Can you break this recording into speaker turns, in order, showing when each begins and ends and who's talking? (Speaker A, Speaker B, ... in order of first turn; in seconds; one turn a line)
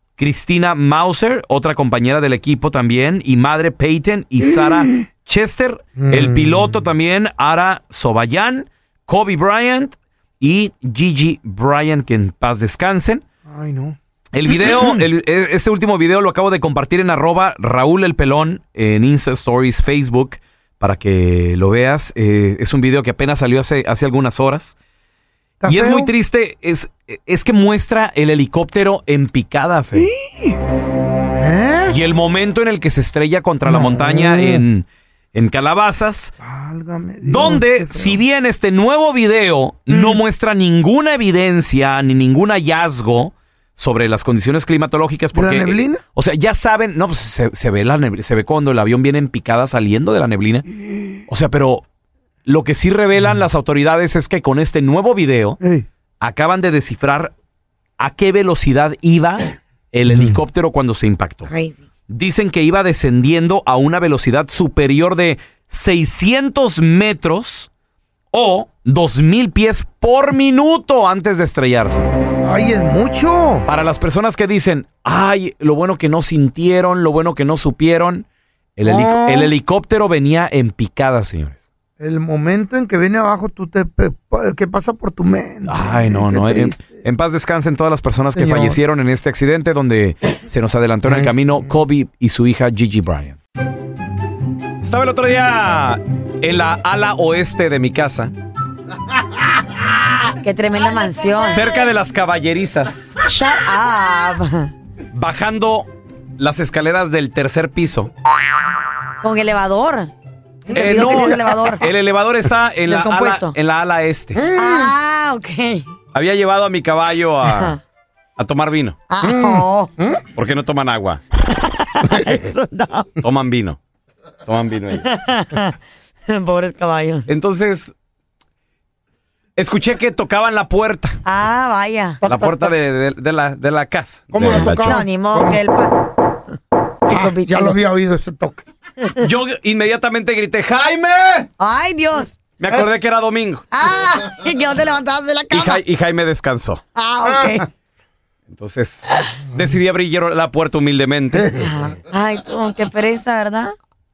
Speaker A: 0.2-13.2
Speaker B: 4.6-5.0
Speaker B: 6.0-6.8
Speaker B: 13.4-15.0
Speaker A: 14.3-24.7
Speaker B: 25.6-26.1
Speaker A: 25.6-30.1
Speaker B: 29.9-30.5
Speaker B: 31.3-31.9
Speaker A: 31.9-36.3
Speaker B: 33.6-34.6
Speaker B: 36.4-38.2
Speaker A: 37.2-50.6
Speaker B: 39.9-40.2
Speaker B: 45.3-46.0
Speaker A: 51.3-51.8
Speaker A: 52.5-55.6
Speaker B: 55.6-55.9
Speaker A: 56.2-57.3
Speaker A: 58.0-61.5
Speaker B: 60.1-60.3
Speaker C: 61.4-61.8
Speaker A: 62.1-67.7
Speaker A: 68.3-72.1
Speaker B: 72.4-73.7
Speaker A: 73.7-78.2
Speaker A: 78.8-81.6
Speaker B: 78.8-79.5
Speaker B: 82.0-87.0
Speaker A: 85.7-93.4
Speaker B: 88.3-88.8
Speaker B: 91.0-91.7
Speaker A: 94.8-98.3
Speaker C: 100.4-101.7
Speaker A: 101.4-103.1
Speaker C: 103.2-104.7
Speaker A: 105.1-105.9
Speaker A: 106.4-108.1
Speaker C: 109.2-110.1
Speaker C: 110.7-111.8
Speaker A: 110.7-114.4
Speaker B: 110.7-111.3
Speaker C: 112.9-113.5
Speaker B: 114.3-114.9
Speaker C: 114.5-115.9
Speaker A: 116.1-117.7
Speaker C: 117.5-117.8
Speaker A: 118.4-119.0
Speaker C: 119.1-119.9
Speaker B: 119.2-120.2
Speaker A: 120.3-121.2
Speaker C: 121.5-123.1
Speaker B: 122.0-122.3
Speaker A: 123.2-123.8
Speaker A: 124.5-125.0
Speaker C: 125.0-125.7
Speaker C: 126.3-127.3
Speaker A: 127.3-127.9
Speaker A: 129.6-131.2
Speaker C: 131.2-132.2
Speaker B: 132.2-132.7
Speaker A: 132.2-135.0
Speaker B: 134.3-135.6
Speaker C: 134.4-136.0
Speaker C: 137.1-137.8
Speaker B: 137.1-138.6
Speaker A: 139.2-141.5
Speaker C: 141.6-142.3
Speaker A: 142.6-143.7
Speaker C: 143.7-145.8
Speaker A: 145.5-146.8
Speaker C: 146.9-147.6
Speaker B: 147.2-147.7
Speaker A: 148.5-151.5
Speaker B: 151.3-151.7
Speaker C: 151.6-153.7